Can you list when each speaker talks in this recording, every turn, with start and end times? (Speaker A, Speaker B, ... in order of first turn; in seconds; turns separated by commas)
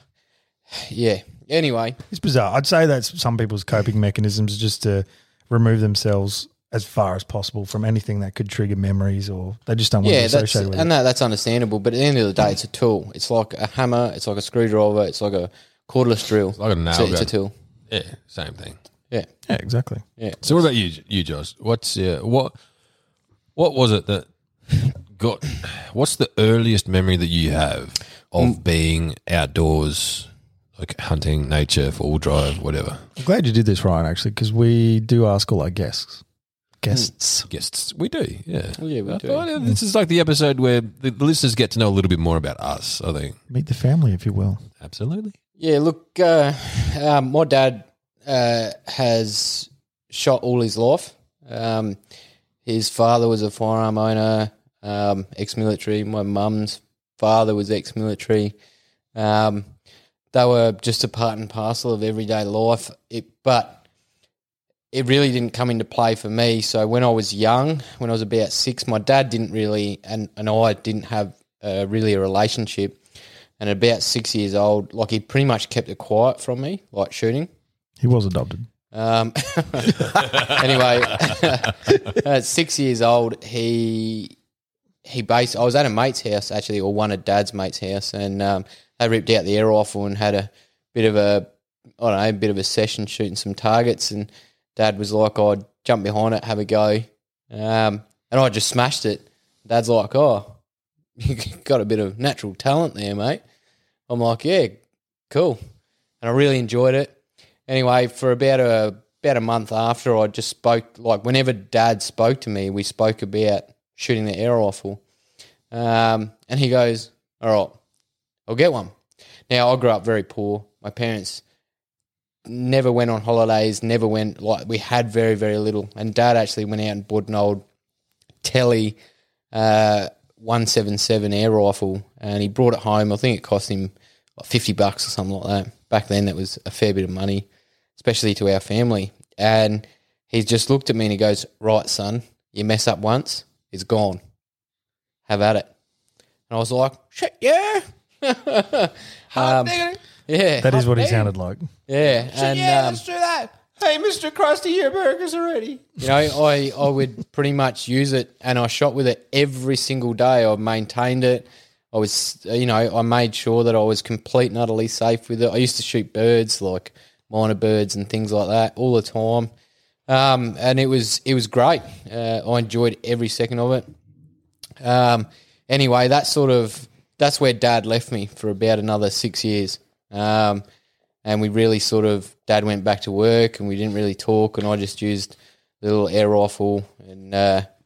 Speaker A: 0.7-2.0, Speaker B: 2.1-10.9, Speaker A: 10.0-17.5, Speaker C: 16.6-17.3, Speaker C: 17.9-18.8, Speaker B: 19.5-20.0, Speaker C: 20.4-22.5, Speaker C: 23.6-33.0, Speaker B: 33.2-36.2, Speaker B: 36.8-37.5, Speaker C: 37.5-43.4, Speaker A: 38.8-39.5, Speaker B: 43.5-44.6, Speaker C: 44.8-45.3, Speaker A: 45.6-52.0, Speaker A: 52.6-58.5, Speaker A: 59.1-59.7, Speaker A: 60.3-63.8, Speaker A: 64.9-73.0, Speaker A: 73.6-77.5, Speaker B: 78.0-78.7, Speaker A: 78.9-84.3, Speaker A: 85.0-91.5, Speaker A: 92.0-100.5, Speaker A: 101.2-103.4, Speaker A: 104.1-104.8, Speaker A: 105.3-105.6, Speaker A: 106.2-107.2, Speaker A: 107.7-115.0, Speaker A: 115.7-117.8, Speaker A: 118.5-118.9, Speaker A: 119.5-121.4, Speaker A: 122.5-127.6, Speaker A: 128.4-129.0, Speaker A: 129.5-144.2, Speaker A: 145.3-145.7, Speaker A: 146.5-151.3, Speaker C: 149.3-150.0, Speaker B: 150.6-151.7, Speaker A: 151.9-153.0, Speaker C: 152.2-156.0, Speaker A: 156.0-169.5, Speaker A: 170.1-173.9, Speaker A: 174.8-180.6, Speaker A: 181.2-187.7